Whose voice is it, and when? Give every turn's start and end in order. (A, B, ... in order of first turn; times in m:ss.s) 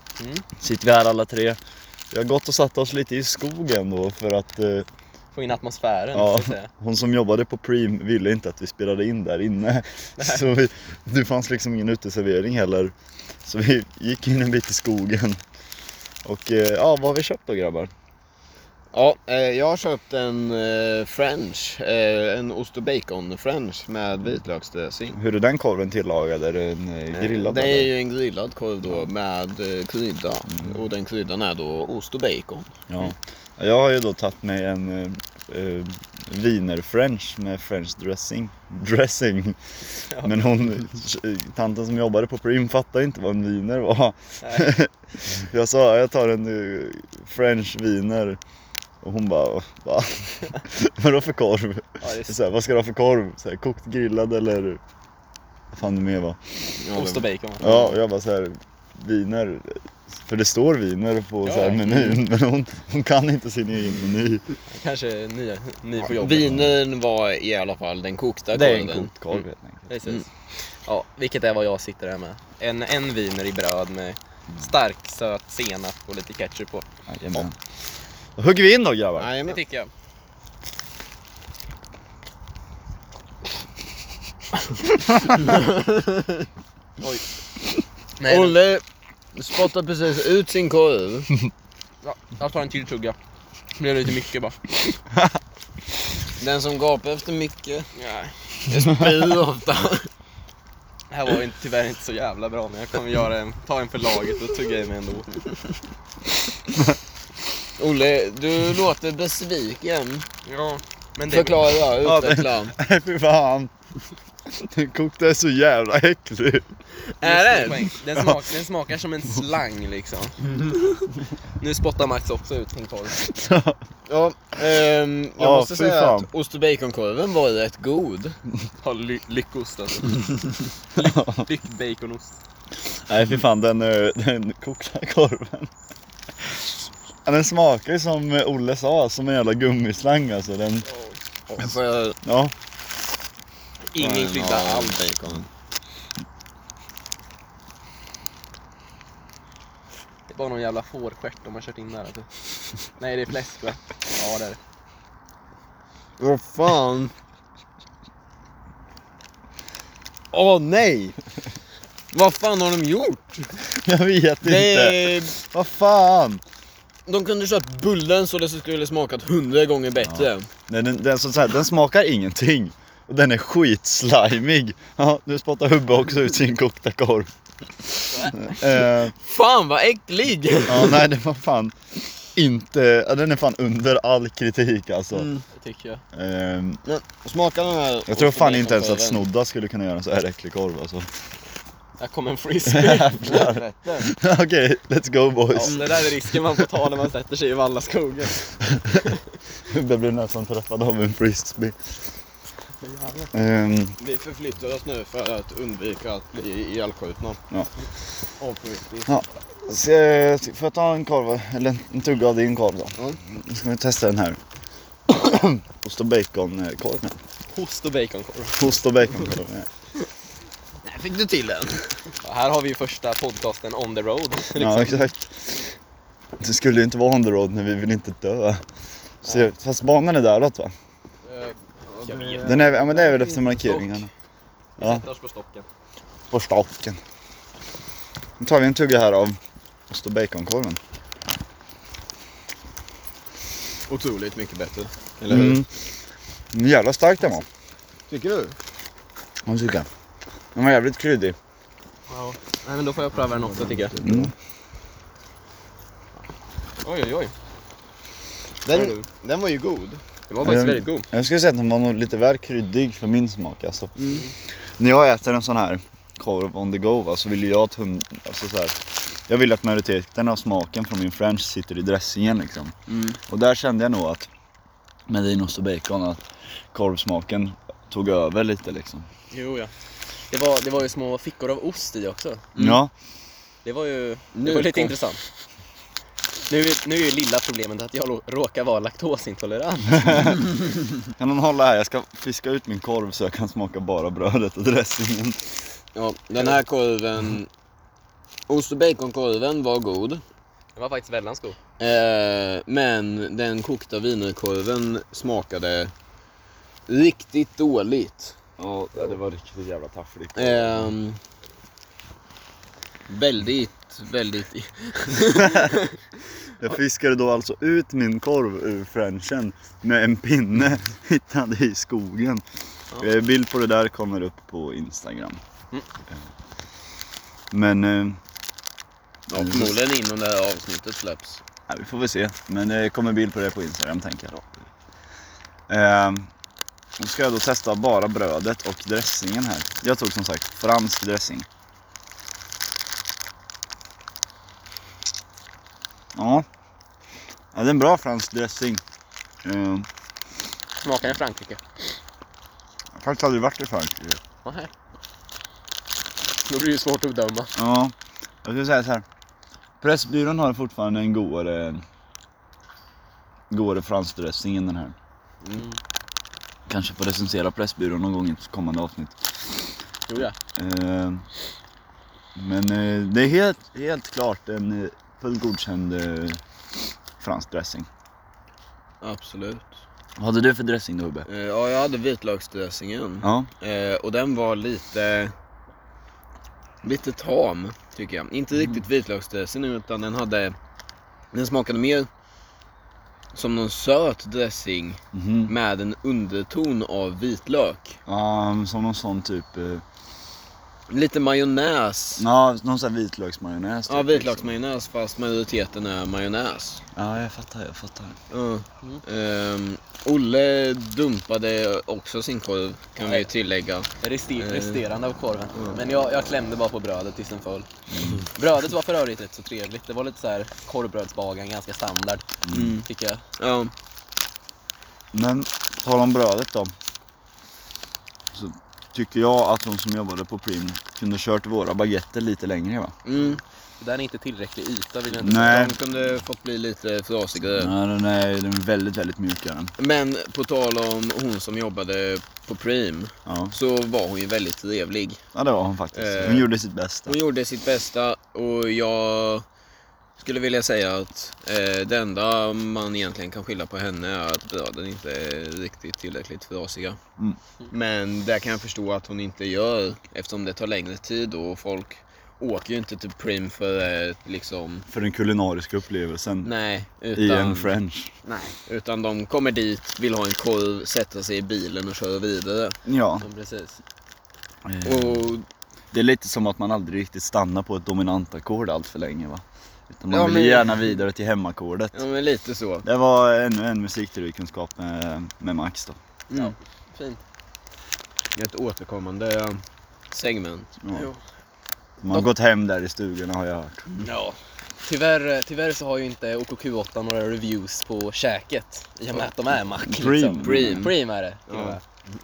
0:00.2-0:00.4 A
0:00.6-0:01.6 B
0:02.1-0:04.9 B
0:05.3-0:06.7 A
0:06.1-0:15.4 B
0:10.2-0:10.5 A
0:16.2-0:17.9 B
0:18.9-0:25.2 C
0:25.1-0:27.9 B
0:27.1-0:32.7 C
0:32.9-0:39.6 B
0:40.1-0:40.5 A
0:40.2-0:48.4 B
0:44.4-0:44.7 A
0:49.0-0:54.8 B
0:52.0-0:52.4 A
0:55.7-0:56.6 B
0:56.8-0:57.3 C
0:56.9-0:58.0 A
0:57.6-1:04.4 B
1:01.4-1:02.2 A
1:04.7-1:06.7 A
1:06.0-1:09.1 C
1:08.5-1:09.9 B
1:09.3-1:10.3 A
1:10.8-1:16.8 A
1:17.1-1:17.6 B
1:18.4-1:19.3 B
1:19.2-1:19.6 C
1:19.4-1:19.9 A
1:25.4-1:26.2 C
1:28.2-1:28.6 A
1:28.2-1:28.8 C
1:29.3-1:31.3 C
1:32.0-1:33.2 A
1:33.8-1:35.0 A
1:36.4-1:37.9 C
1:38.0-1:38.6 A
1:38.7-1:40.1 C
1:41.1-1:45.3 A
1:47.8-1:50.2 C
1:50.4-1:51.8 A
1:51.2-1:52.7 C
1:52.0-1:53.7 B
1:54.5-1:56.7 B
1:57.1-1:58.0 C
1:57.2-2:00.6 A
2:01.6-2:03.2 A
2:03.1-2:03.8 B
2:04.1-2:08.4 C
2:05.4-2:06.3 B
2:08.8-2:12.4 A
2:11.0-2:11.5 B
2:13.1-2:15.7 B
2:17.2-2:20.8 B
2:20.9-2:21.1 A
2:21.5-2:22.2 C
2:22.2-2:22.5 B
2:23.9-2:25.0 A
2:24.0-2:25.5 C
2:30.3-2:32.3 A
2:32.9-2:34.6 A
2:36.2-2:37.1 C
2:40.3-2:41.2 C
2:42.1-2:43.6 C
2:43.8-2:46.4 B
2:44.4-2:45.4 C
2:47.1-2:50.5 C
2:50.1-2:57.3 B
2:58.0-2:59.1 B
2:58.1-2:58.5 A
2:58.6-3:01.1 C
3:00.7-3:05.3 B
3:05.1-3:05.4 C
3:05.6-3:06.0 A
3:06.1-3:06.8 B
3:06.8-3:09.2 C
3:08.1-3:11.1 B
3:12.0-3:13.5 A
3:12.7-3:16.1 B
3:13.3-3:14.1 C
3:15.5-3:19.2 A
3:19.6-3:21.8 B
3:22.8-3:23.3 A
3:23.3-3:23.9 B
3:24.0-3:27.4 C
3:28.4-3:29.2 C
3:29.1-3:34.4 B
3:35.1-3:37.1 B
3:37.5-3:38.7 A
3:38.6-3:39.7 B
3:40.8-3:41.9 C
3:42.2-3:45.1 A
3:44.6-3:45.7 B
3:46.4-3:48.6 B
3:49.2-3:50.7 B
3:51.3-3:54.0 A
3:51.9-3:53.1 C
3:52.4-3:54.1 B
3:54.8-3:55.7 A
3:56.3-3:57.0 B
3:58.4-3:59.4 B
3:59.9-4:00.8 B
4:03.9-4:05.6 C
4:05.3-4:05.7 B
4:06.5-4:07.5 B
4:08.1-4:08.6 C
4:09.4-4:09.9 B
4:10.5-4:11.4 B
4:12.1-4:14.0 A
4:13.6-4:14.2 C
4:14.0-4:14.3 B
4:16.8-4:17.3 A
4:18.6-4:20.0 C
4:20.3-4:21.1 A
4:20.4-4:24.0 B
4:24.0-4:24.3 C
4:24.8-4:32.8 B
4:32.9-4:33.2 C
4:33.3-4:34.3 B
4:35.1-4:39.1 B
4:39.3-4:39.7 A
4:40.3-4:42.5 A
4:42.6-4:42.8 C
4:42.6-4:42.9 B
4:43.6-4:45.2 A
4:44.3-4:45.0 C
4:46.5-4:50.3 A
4:50.0-4:50.5 B
4:51.1-4:55.6 B
4:55.9-4:57.5 C
4:58.5-5:00.2 C
5:00.8-5:01.6 A
5:01.8-5:05.9 C
5:06.9-5:08.4 C
5:08.6-5:10.9 B
5:10.4-5:11.2 C
5:13.1-5:15.8 C
5:15.3-5:15.8 B
5:16.6-5:22.4 B
5:23.0-5:25.4 B
5:27.5-5:28.2 B
5:29.3-5:31.4 C
5:29.4-5:29.7 B
5:31.7-5:34.3 B
5:35.7-5:36.3 B
5:37.0-5:41.4 B
5:46.1-5:46.4 B
5:47.5-5:48.8 B
5:49.4-5:49.9 B
5:50.8-5:51.8 A
5:52.9-5:54.2 B
5:54.4-5:54.7 A
5:56.4-5:57.5 A
5:57.6-5:59.0 B
5:59.8-6:01.8 B
6:03.5-6:04.9 B
6:05.4-6:05.7 C
6:06.7-6:09.3 B
6:10.1-6:10.3 A
6:10.6-6:11.2 B
6:12.4-6:16.4 B
6:17.2-6:17.9 B
6:19.0-6:19.8 C
6:20.2-6:21.2 B
6:21.3-6:25.3 C
6:23.2-6:23.5 B
6:26.8-6:30.6 C
6:31.3-6:32.1 C
6:33.3-6:38.0 C
6:35.1-6:35.5 B
6:38.1-6:39.8 B
6:40.9-6:42.2 C
6:42.2-6:44.5 B
6:43.9-6:46.8 C
6:46.9-6:48.2 B
6:48.3-6:54.8 C
6:53.0-6:53.3 A
6:54.0-6:57.7 A
6:55.6-6:55.8 C
6:57.9-6:58.2 B
6:58.3-7:03.2 A
7:02.5-7:02.8 B
7:02.5-7:02.9 C
7:03.4-7:03.7 C
7:05.1-7:06.7 B
7:08.3-7:12.9 B
7:13.0-7:13.4 C
7:13.8-7:15.6 A
7:15.1-7:17.7 C
7:15.2-7:15.8 B
7:17.6-7:19.7 B
7:19.8-7:25.2 C
7:23.2-7:23.5 B
7:25.3-7:27.2 B
7:25.9-7:26.5 C
7:27.1-7:29.4 C
7:30.2-7:37.0 C
7:37.7-7:44.9 C
7:44.9-7:46.5 B
7:46.4-7:52.8 C
7:47.1-7:48.1 B
7:52.9-7:53.3 B
7:53.2-7:53.8 A
7:54.6-7:55.2 B
7:54.8-7:55.4 C
7:55.9-8:02.0 B
8:00.1-8:01.0 C
8:01.9-8:02.9 C
8:02.8-8:06.0 B
8:06.3-8:06.6 C
8:06.3-8:07.2 A
8:08.3-8:10.7 C
8:10.8-8:11.1 B
8:10.9-8:11.2 A
8:12.0-8:13.9 B
8:14.0-8:21.8 A
8:19.8-8:20.9 B
8:20.4-8:21.0 C
8:21.5-8:21.8 C